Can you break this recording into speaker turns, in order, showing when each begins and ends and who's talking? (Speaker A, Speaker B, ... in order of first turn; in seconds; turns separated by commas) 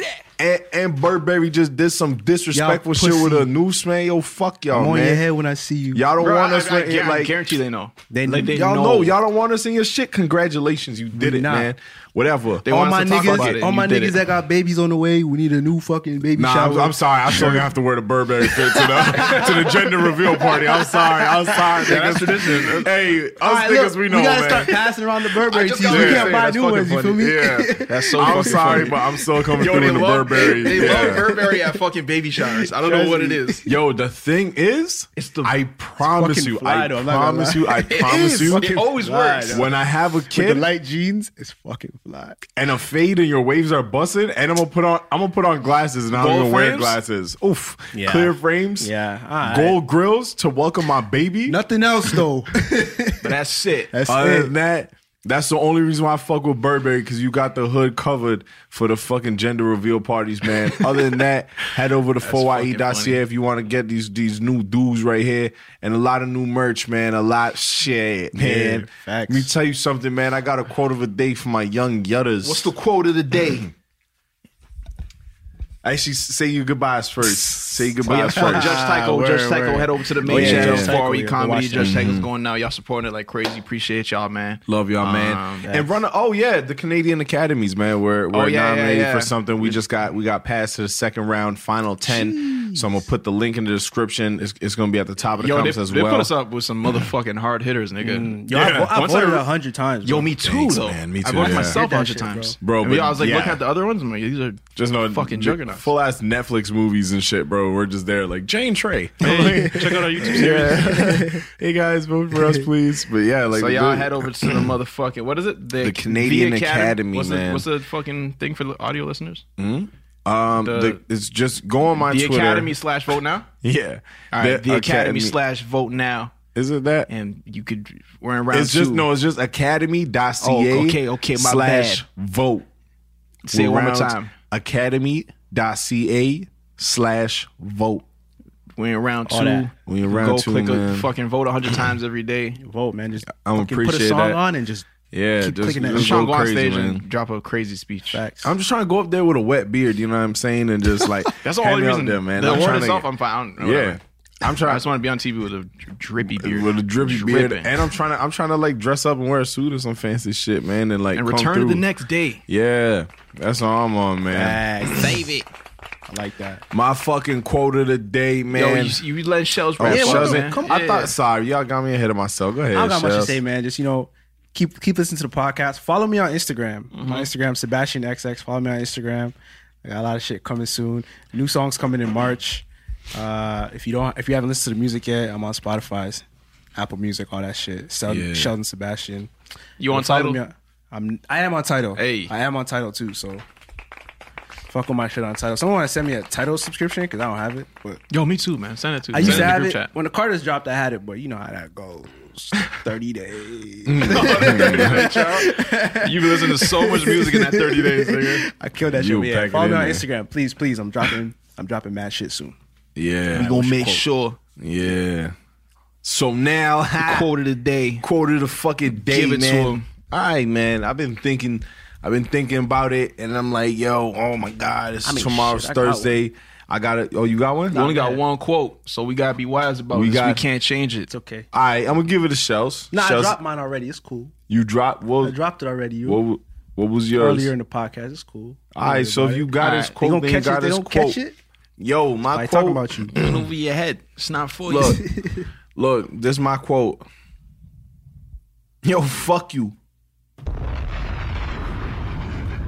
Speaker A: 0.4-5.2, Speaker B: 2.5-3.5, Speaker B: 4.7-6.1, Speaker A: 5.9-7.3, Speaker C: 6.2-9.2, Speaker B: 8.1-8.7, Speaker A: 8.5-13.5, Speaker B: 11.1-11.7, Speaker C: 12.6-14.2, Speaker B: 12.7-17.7, Speaker A: 16.3-24.9, Speaker B: 18.4-22.6, Speaker C: 21.8-22.9, Speaker B: 23.4-29.1, Speaker C: 25.5-27.2, Speaker A: 25.8-26.4, Speaker A: 27.0-31.2, Speaker C: 27.9-29.0, Speaker C: 29.6-33.6, Speaker B: 30.4-31.7, Speaker B: 32.6-33.6, Speaker A: 33.6-38.7, Speaker C: 35.1-35.5, Speaker B: 36.0-39.7, Speaker C: 37.9-39.7, Speaker A: 39.5-40.6, Speaker B: 40.3-42.4, Speaker A: 42.5-48.9, Speaker C: 46.1-47.0, Speaker B: 47.9-49.8, Speaker A: 49.4-51.6, Speaker B: 51.5-53.3, Speaker C: 53.2-53.9, Speaker B: 53.9-54.5, Speaker A: 54.0-72.7, Speaker C: 62.2-63.2, Speaker B: 68.3-69.5, Speaker C: 72.4-73.7, Speaker A: 75.8-78.8, Speaker B: 77.5-82.0, Speaker C: 78.0-85.7, Speaker A: 80.2-81.0, Speaker A: 81.8-82.3, Speaker A: 84.7-96.3, Speaker B: 85.6-85.9, Speaker C: 88.3-89.7, Speaker B: 92.1-92.8, Speaker C: 95.4-99.5, Speaker B: 98.0-100.7, Speaker A: 98.5-98.9, Speaker C: 100.0-105.8, Speaker A: 100.6-101.8, Speaker B: 101.4-102.6, Speaker A: 102.6-103.6, Speaker A: 104.8-114.7, Speaker C: 109.2-111.1, Speaker B: 110.9-111.4, Speaker C: 113.5-119.4, Speaker A: 115.8-117.7, Speaker A: 119.6-122.7, Speaker C: 120.5-121.0, Speaker C: 122.0-123.5, Speaker A: 123.6-125.3, Speaker C: 124.3-126.3, Speaker A: 126.5-127.1, Speaker C: 127.1-129.1, Speaker A: 128.5-132.7, Speaker C: 130.4-132.0, Speaker C: 133.4-134.3, Speaker A: 133.5-138.0, Speaker C: 138.8-142.6, Speaker B: 139.3-139.7, Speaker A: 139.8-141.1, Speaker B: 142.6-144.9, Speaker A: 143.3-144.4, Speaker A: 145.1-147.0, Speaker B: 145.4-146.3, Speaker C: 145.9-148.2, Speaker B: 148.1-148.5, Speaker A: 148.4-153.1, Speaker C: 151.4-154.0, Speaker A: 153.6-154.8, Speaker C: 154.6-157.7, Speaker A: 156.2-161.8, Speaker C: 161.1-162.4, Speaker A: 162.5-164.9, Speaker B: 164.3-165.2, Speaker C: 164.9-165.5, Speaker B: 166.1-166.6, Speaker A: 166.7-169.0, Speaker C: 168.5-171.1, Speaker A: 169.8-173.4, Speaker B: 169.8-170.7, Speaker B: 172.7-186.2, Speaker C: 176.9-177.3, Speaker B: 186.7-189.3, Speaker A: 188.1-188.5, Speaker C: 189.8-190.4, Speaker B: 189.9-193.4, Speaker C: 191.9-192.3, Speaker B: 194.7-198.0, Speaker C: 198.1-199.9, Speaker B: 199.1-212.6, Speaker A: 199.2-199.6, Speaker A: 203.8-205.4, Speaker C: 204.1-208.4, Speaker A: 208.9-210.1, Speaker A: 212.9-213.7, Speaker C: 213.3-214.4, Speaker B: 213.3-214.0, Speaker A: 214.6-215.3, Speaker A: 216.0-217.3, Speaker C: 217.0-218.0, Speaker A: 218.0-227.9, Speaker C: 219.0-219.8, Speaker B: 225.0-226.1, Speaker B: 227.7-228.2, Speaker C: 227.7-231.1, Speaker A: 229.9-230.4, Speaker B: 231.1-231.5, Speaker A: 231.5-233.4, Speaker B: 232.9-234.3, Speaker A: 234.5-235.3, Speaker B: 235.2-236.2, Speaker A: 236.0-237.5, Speaker B: 237.1-241.4, Speaker A: 238.7-241.2, Speaker C: 239.6-239.9, Speaker A: 241.8-243.5, Speaker B: 242.3-243.2, Speaker C: 243.1-245.0, Speaker A: 244.7-245.0, Speaker B: 245.0-245.4, Speaker A: 245.7-247.0, Speaker A: 248.8-249.7